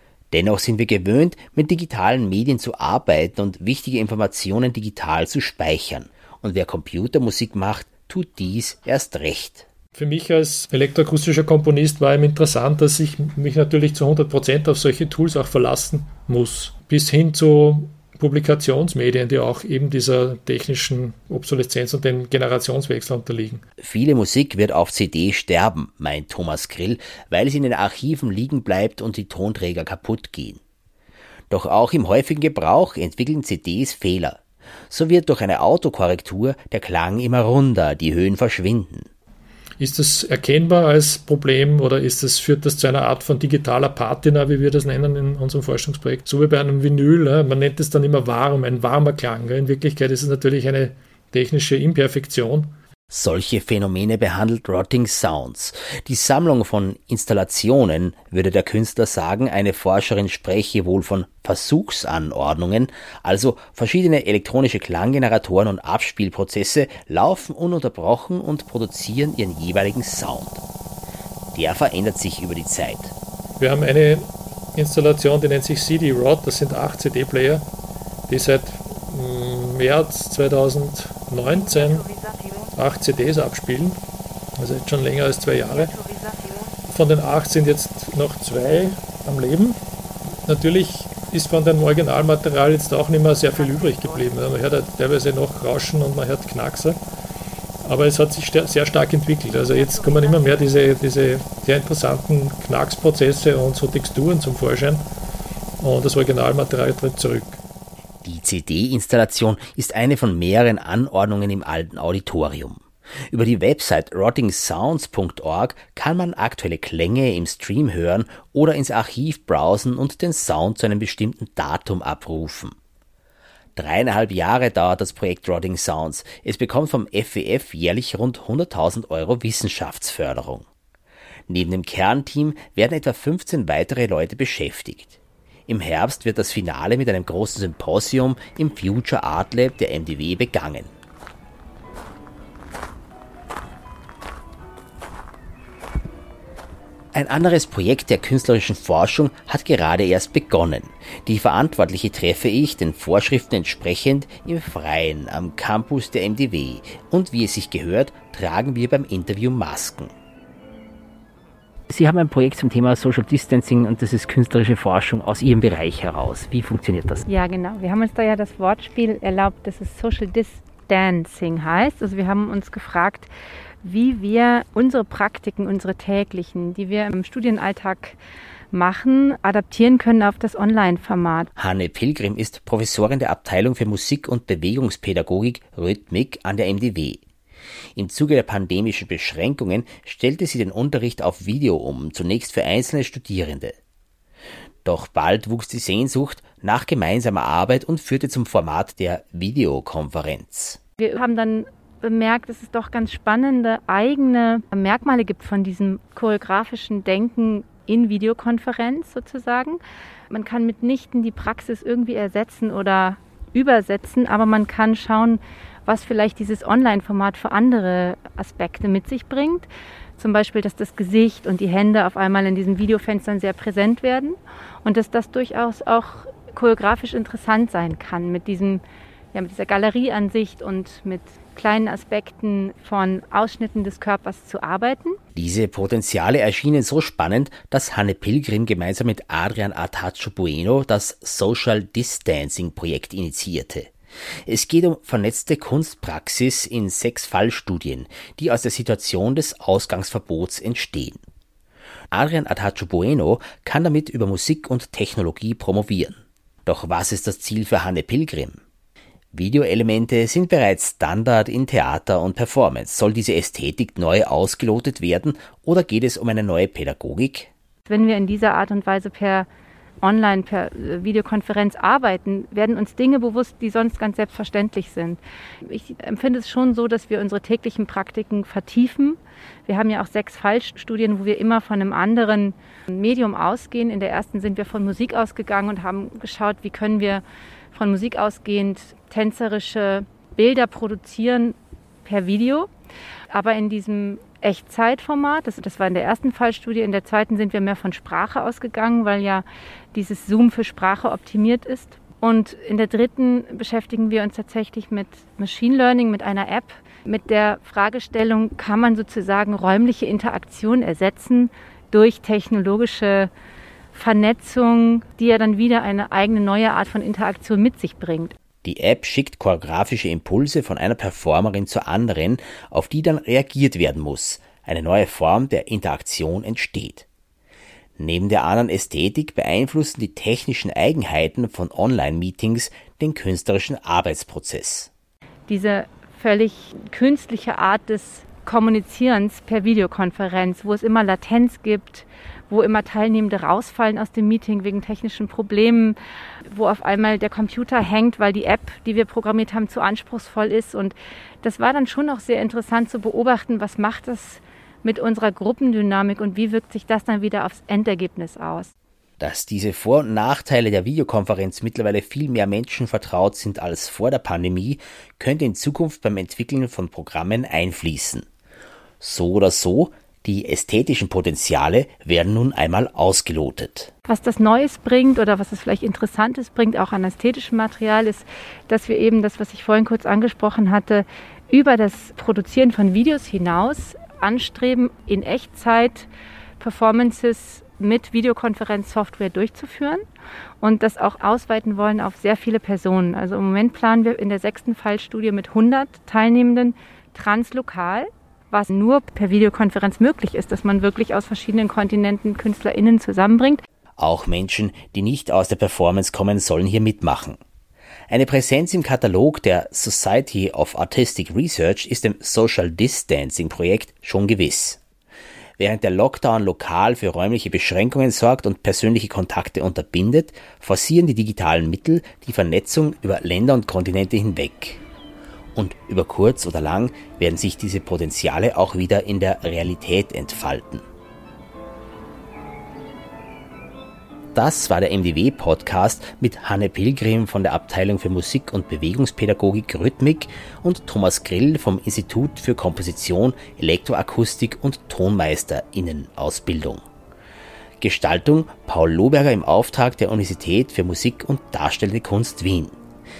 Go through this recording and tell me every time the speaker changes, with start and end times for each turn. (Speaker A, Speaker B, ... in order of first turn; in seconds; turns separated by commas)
Speaker A: 0.3-9.7, Speaker B: 9.9-23.6, Speaker A: 23.8-30.6, Speaker A: 31.5-39.1, Speaker B: 39.8-52.7, Speaker A: 53.1-70.6, Speaker A: 71.5-73.1, Speaker B: 73.6-77.6, Speaker B: 78.3-82.1, Speaker B: 82.7-84.0, Speaker B: 84.6-85.9, Speaker B: 86.9-89.7, Speaker B: 90.5-97.0, Speaker B: 97.8-105.0, Speaker B: 105.8-107.6, Speaker A: 108.2-122.8, Speaker A: 123.8-130.7, Speaker A: 131.5-140.9, Speaker A: 147.1-160.1, Speaker A: 161.9-167.2, Speaker C: 167.3-173.3, Speaker C: 173.8-178.2, Speaker C: 178.7-181.5, Speaker A: 181.6-187.2, Speaker A: 187.9-193.8, Speaker A: 194.8-200.8, Speaker C: 201.0-235.2, Speaker A: 235.3-243.9, Speaker A: 244.4-251.2, Speaker A: 252.1-258.6, Speaker A: 259.3-267.5, Speaker C: 267.9-269.5, Speaker C: 270.0-292.7, Speaker C: 293.3-313.3, Speaker C: 313.9-318.3, Speaker A: 318.6-327.1, Speaker A: 328.0-334.9, Speaker C: 335.5-358.7, Speaker A: 359.2-368.2, Speaker A: 369.0-373.9, Speaker C: 374.1-390.0, Speaker C: 390.6-403.6, Speaker A: 404.0-407.4, Speaker A: 408.1-414.8, Speaker A: 415.6-424.8, Speaker A: 425.5-430.8, Speaker A: 434.3-446.8, Speaker A: 447.8-452.7